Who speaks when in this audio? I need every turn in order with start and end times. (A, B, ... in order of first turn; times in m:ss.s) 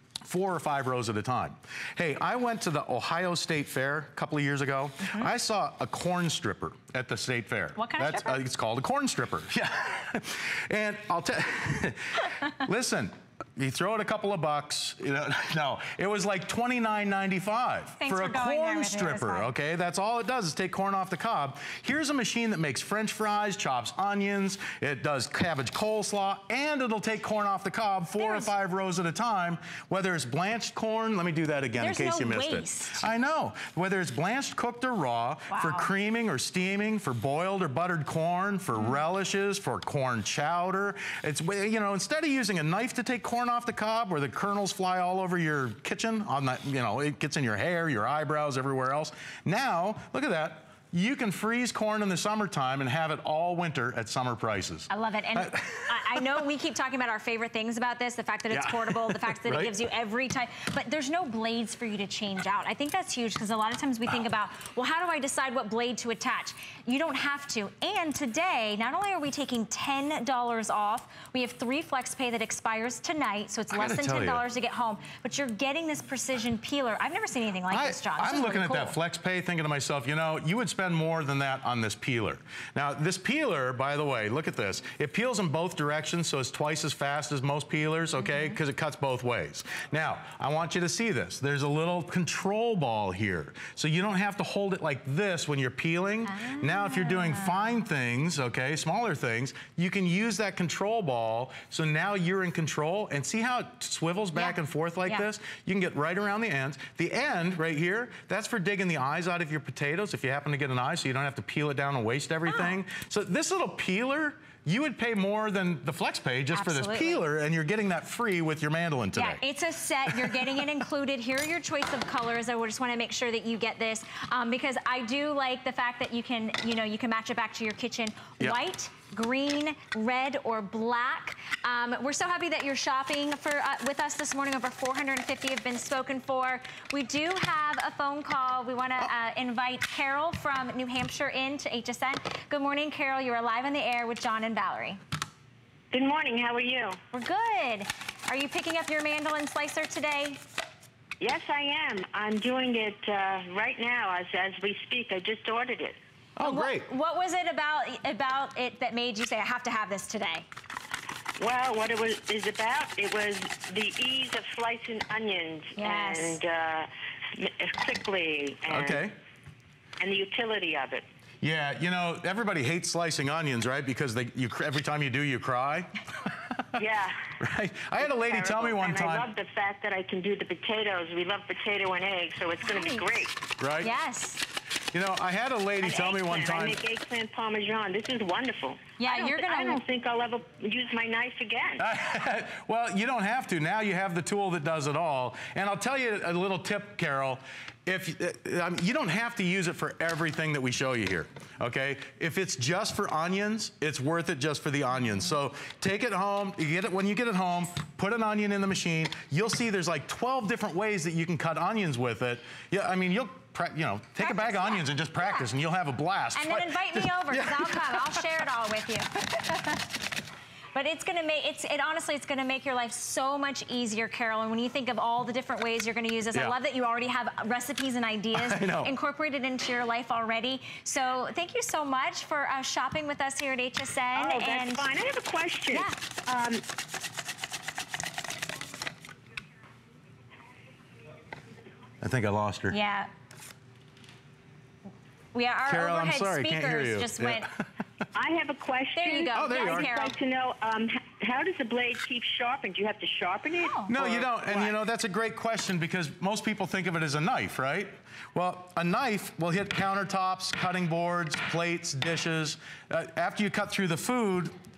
0:00.2-0:56.4 A
0:05.0-0:05.3 B
0:07.8-0:08.4 B
0:18.0-0:19.5 B
0:28.2-0:28.5 B
0:31.8-0:33.0 B
0:35.5-0:35.9 B
0:38.7-0:39.0 B
0:54.9-1:19.0 B
0:58.5-0:59.7 A
1:13.7-1:14.4 A
1:17.7-1:59.4 A
1:28.2-1:28.6 B
1:36.3-1:37.6 B
1:44.3-1:45.3 B
1:52.5-1:52.7 B
1:56.5-1:57.2 B
1:59.1-2:25.0 B
2:00.0-2:00.6 A
2:25.9-2:27.0 C
2:27.1-2:30.4 B
2:31.2-2:36.0 C
2:36.4-2:36.9 A
2:36.4-2:40.4 B
2:41.4-2:49.0 C
2:45.8-2:46.4 B
2:48.7-2:49.1 A
2:50.0-2:51.0 C
2:51.4-2:56.6 A
2:56.7-2:57.2 C
2:57.4-2:59.3 A
2:58.0-3:03.4 C
3:03.6-3:03.9 A
3:03.8-3:04.4 B
3:04.9-3:06.8 A
3:05.8-3:11.8 C
3:09.0-3:09.8 B
3:11.8-3:38.4 A
3:34.2-3:35.5 B
3:36.3-3:39.8 B
3:40.7-3:54.8 B
3:48.3-3:48.9 A
3:54.2-3:56.6 C
4:02.0-4:02.8 A
4:02.7-4:03.1 B
4:05.3-4:07.5 B
4:05.7-4:07.4 A
4:08.1-4:14.7 C
4:08.9-4:10.2 B
4:09.3-4:09.9 A
4:13.6-4:13.9 B
4:13.9-4:24.5 A